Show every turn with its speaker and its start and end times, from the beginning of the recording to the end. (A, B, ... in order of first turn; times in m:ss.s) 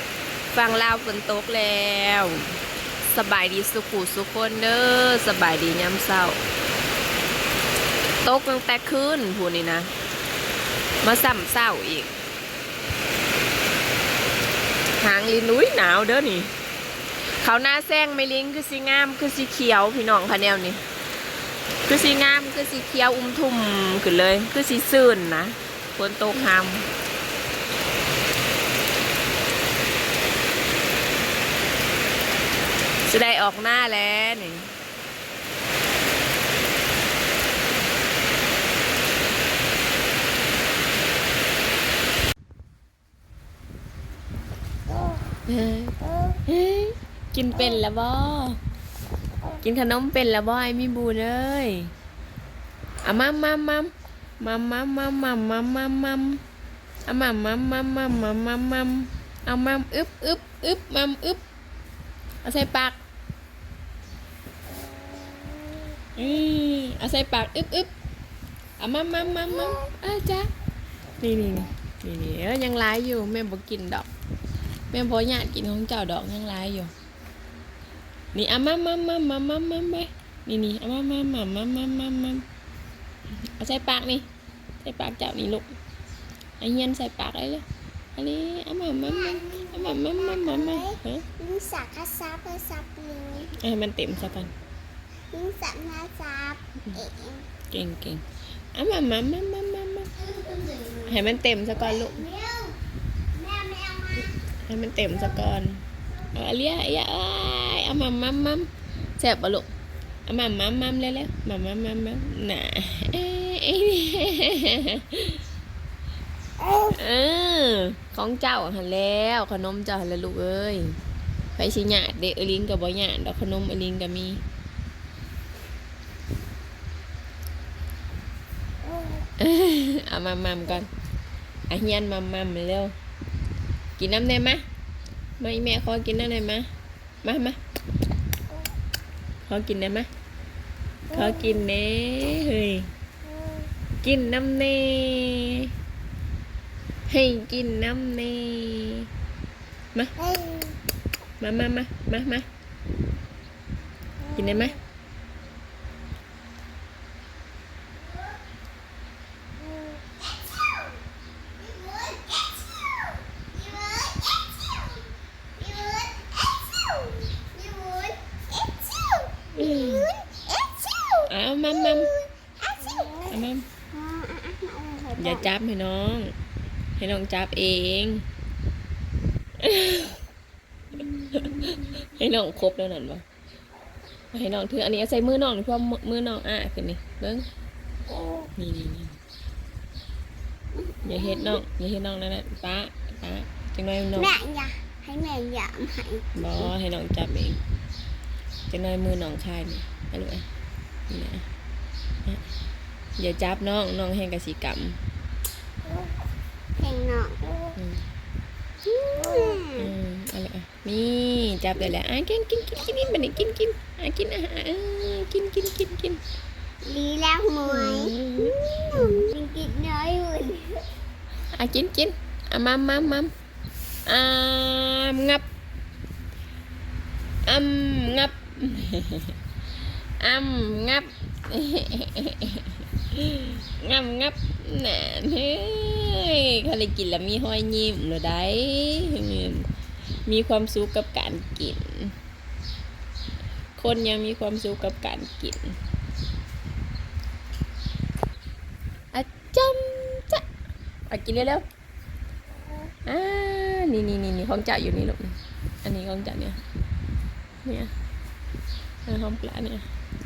0:00.5-0:06.4 A
0:08.2-0:09.9 A
0:11.0-0:12.2 A
0:15.0-0:16.5 A
0:17.4-0:20.8 A
0:21.8-0:26.9 A
0:33.1-0:34.7 A
0:45.5-0:48.6 A
0:49.6-0:51.9 A
0:53.0-0:56.4 A
0:57.0-1:01.4 A
1:02.4-1:03.0 A
1:06.2-1:07.9 A
1:08.8-1:10.5 A
1:11.2-1:14.1 A
1:14.9-1:16.9 A
1:18.3-1:22.4 A
1:23.6-1:24.2 A
1:24.8-1:25.7 A
1:26.6-1:27.6 A
1:28.2-1:31.2 A
1:29.0-1:33.5 B
1:33.6-1:34.5 A
1:35.3-1:37.4 B
1:37.7-1:38.2 A
1:38.7-1:40.1 A
1:40.4-1:41.1 B
1:41.0-1:42.2 A
1:41.7-1:42.8 B
1:43.3-1:44.4 B
1:44.7-1:45.8 A
1:46.3-1:49.7 A
1:50.3-1:55.4 A
1:56.6-1:56.9 B
1:56.9-2:01.0 A
2:01.6-2:04.4 A
2:09.4-2:10.9 A
2:11.7-2:12.9 A
2:14.0-2:14.6 A
2:15.4-2:16.7 A
2:17.2-2:17.6 A
2:19.5-2:20.1 A
2:21.1-2:22.9 A
2:24.0-2:25.7 A
2:27.1-2:29.1 A
2:30.2-2:30.7 B
2:31.4-2:32.4 A
2:34.3-2:34.8 A
2:38.0-2:38.3 B
2:39.8-2:41.0 B
2:41.6-2:45.0 B
2:45.6-2:51.3 B
2:49.6-2:50.1 A
2:51.3-2:52.1 A
2:51.9-2:53.3 B
2:53.3-2:53.7 A
2:53.9-2:55.5 B
2:55.2-2:56.3 A
2:57.0-2:58.2 A
2:59.6-3:00.2 A
3:01.3-3:03.2 A
3:04.3-3:07.4 A
3:08.6-3:09.2 A
3:11.0-3:14.3 A
3:11.0-3:11.6 B
3:14.1-3:16.7 B
3:16.3-3:17.6 A
3:18.7-3:20.4 A
3:21.1-3:21.4 A
3:23.2-3:25.0 A
3:26.8-3:27.4 B
3:27.8-3:28.0 A
3:28.9-3:36.2 A
3:29.2-3:29.9 B
3:36.8-3:40.8 B
3:37.6-3:39.2 A
3:41.5-3:43.3 A
3:44.1-3:45.4 A
3:47.4-3:49.4 A
3:50.2-3:59.7 A
4:00.3-4:02.1 A
4:03.8-4:05.8 A
4:09.1-4:10.4 A
4:11.1-4:11.6 A
4:13.0-4:16.6 A
4:17.6-4:17.9 A
4:19.0-4:19.8 A